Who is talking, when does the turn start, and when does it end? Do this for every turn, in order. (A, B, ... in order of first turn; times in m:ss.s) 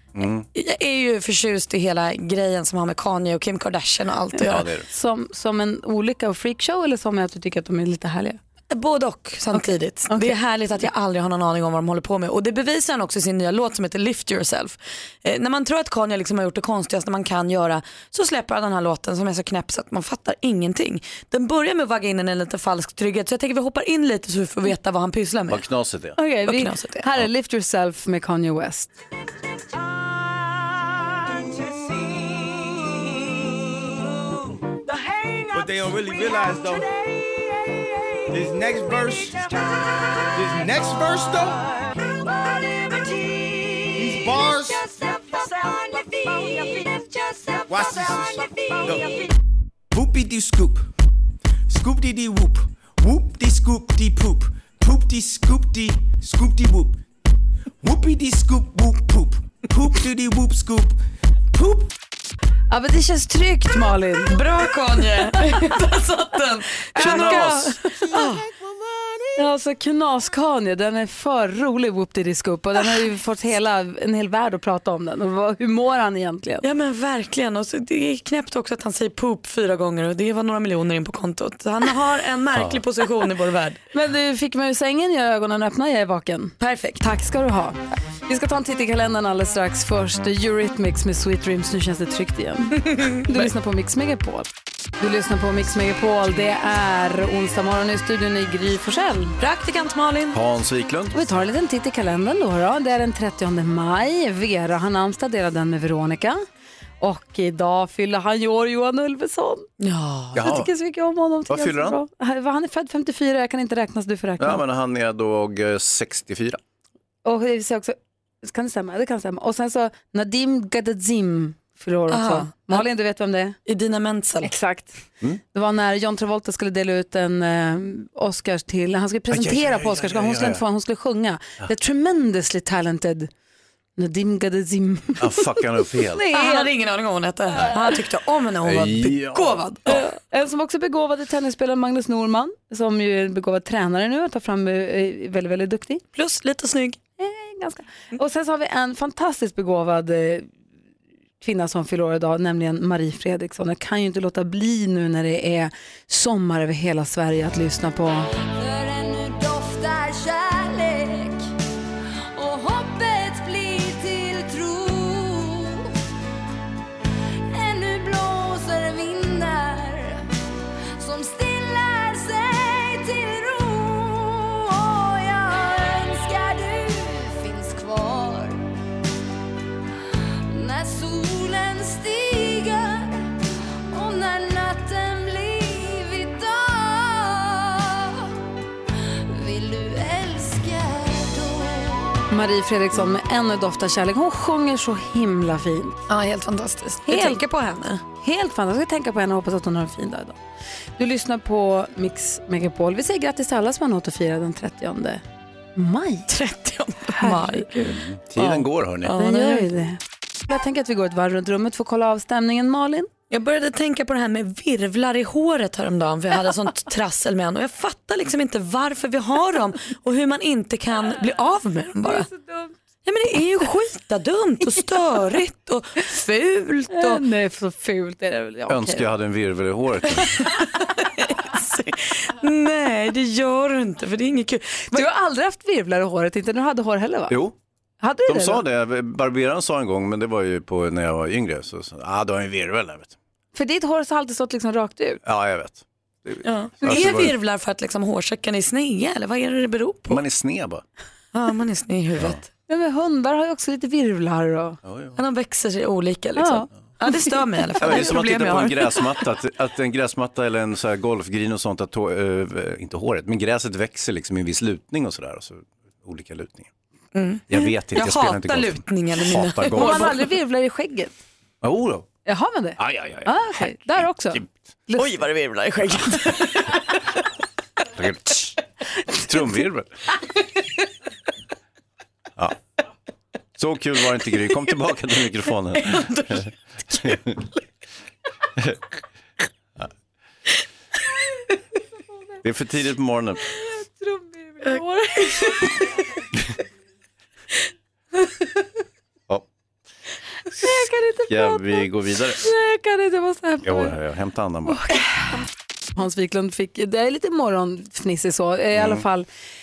0:00.2-0:00.4 A
0:00.5-0:04.7 B
0:04.4-0:04.9 A
0:04.9-0:08.4 C
0:08.7-0:25.6 B
0:25.5-0:26.2 A
0:26.2-0:28.9 C
0:26.5-0:27.0 B
0:31.7-0:33.3 D
0:34.8-0:38.5 D
0:35.5-0:36.9 E
0:38.3-0:39.6 E
0:39.1-0:40.8 D
0:40.3-0:41.6 E
0:42.0-0:49.3 D
0:44.0-0:44.8 E
0:47.7-0:49.3 E
0:49.9-0:50.9 E
0:51.7-0:57.0 E
0:57.8-1:01.0 E
1:01.5-1:01.9 E
1:02.7-1:04.4 C
1:04.3-1:08.4 B
1:06.9-1:07.9 C
1:07.0-1:07.6 A
1:09.4-1:16.6 C
1:16.6-1:23.8 B
1:22.5-1:22.8 A
1:23.9-1:34.5 C
1:26.6-1:27.0 B
1:35.0-1:39.4 C
1:39.4-1:40.4 B
1:40.3-1:41.2 A
1:41.1-1:46.4 C
1:47.0-1:49.7 C
1:49.8-1:50.3 B
1:50.3-1:50.7 A
1:50.4-1:54.6 C
1:51.5-1:52.0 A
1:54.4-1:56.6 A
1:57.2-2:03.6 C
2:02.1-2:02.8 B
2:03.7-2:04.5 B
2:04.4-2:05.0 C
2:05.5-2:13.3 C
2:09.3-2:10.6 A
2:14.0-2:16.7 C
2:15.2-2:16.2 A
2:16.3-2:20.1 B
2:18.6-2:20.0 A
2:20.3-2:26.0 C
2:26.1-2:27.0 B
2:27.2-2:30.5 C
2:31.4-2:38.3 C
2:38.4-2:41.4 D
2:42.3-2:46.0 D
2:47.5-2:50.2 D
2:51.0-2:58.6 D
3:00.5-3:03.3 D
3:03.9-3:08.3 D
3:09.2-3:12.2 D
3:12.3-3:16.0 C
3:16.1-3:18.0 B
3:17.1-3:17.4 C
3:18.2-3:20.4 C
3:21.0-3:25.2 C
3:25.8-3:26.3 C
3:26.3-3:29.7 B
3:27.1-3:27.7 C
3:27.8-3:29.1 A
3:29.2-3:33.1 C
3:33.3-3:42.3 B
3:42.0-3:42.7 C
3:43.0-3:47.2 B
3:46.9-3:49.1 C
3:48.7-3:50.6 A
3:50.4-3:55.0 B
3:54.9-3:57.4 C
3:58.0-3:58.6 C
3:58.3-4:03.1 A
4:03.5-4:05.2 C
4:05.2-4:07.3 A
4:06.4-4:10.2 B
4:06.8-4:07.2 C
4:10.1-4:10.8 A
4:11.3-4:12.4 B
4:12.7-4:14.8 C
4:14.8-4:15.2 A
4:15.2-4:19.1 B
4:16.4-4:16.7 C
4:17.8-4:26.7 A
4:27.1-4:30.3 B
4:27.5-4:30.1 A
4:29.7-4:31.1 C
4:31.6-4:32.0 A
4:32.2-4:35.2 C
4:32.8-4:33.3 A
4:35.0-4:36.8 B
4:37.9-4:38.5 A
4:39.2-4:39.9 A
4:43.6-4:47.5 A
4:45.8-4:46.4 B
4:52.4-4:53.4 A
4:53.9-4:55.7 C
4:55.2-4:55.7 B
5:00.6-5:01.9 C
5:01.3-5:02.4 A
5:02.4-5:03.9 C
5:03.6-5:05.0 A
5:04.7-5:05.0 C
5:06.0-5:09.3 C
5:08.8-5:09.0 A